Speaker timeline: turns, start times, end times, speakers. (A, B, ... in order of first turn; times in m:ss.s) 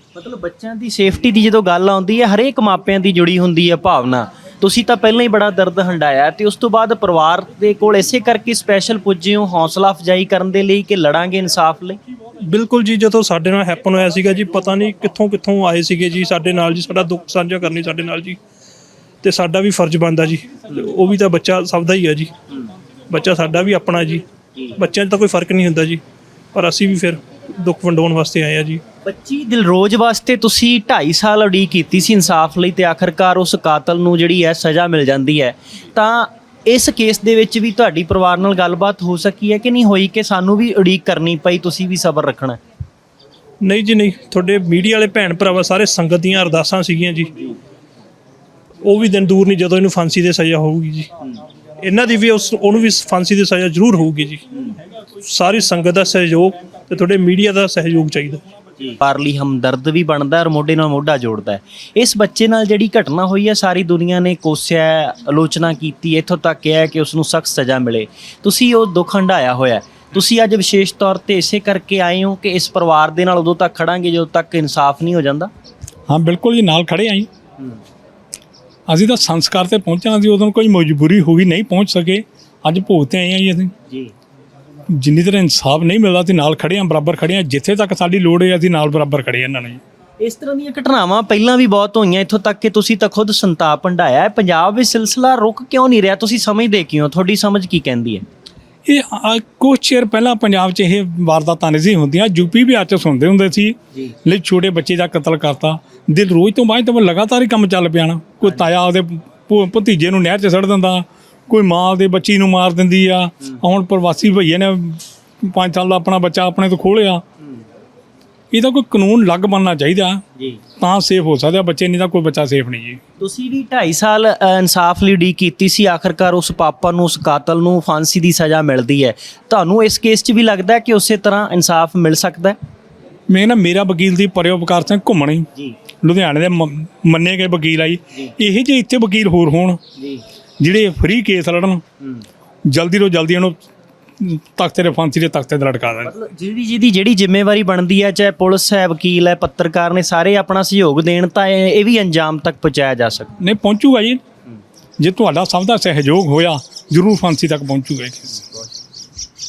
0:00.1-0:12.0 A
0:12.5-0:18.4 B
0:19.2-0:22.3 B
0:23.1-0:24.2 B
0:24.8-0:26.0 B
0:26.5-0:28.8 B
0:29.0-0:42.6 A
0:43.6-0:47.3 B
0:48.8-0:51.1 B
0:51.8-0:54.4 B
0:55.2-0:58.4 B
0:58.8-1:15.5 A
1:16.1-1:17.3 C
1:18.9-1:23.7 C
1:24.9-1:29.8 C
1:30.2-1:38.2 A
1:38.8-1:57.2 C
1:58.5-2:00.2 C
2:00.8-2:03.0 C
2:03.2-2:12.6 A
2:13.3-2:15.5 C
2:16.0-2:19.8 C
2:20.0-2:20.2 A
2:20.6-2:21.8 C
2:22.7-2:23.6 C
2:24.2-2:26.1 C
2:26.0-2:33.3 A
2:33.4-2:34.2 C
2:35.0-2:38.4 C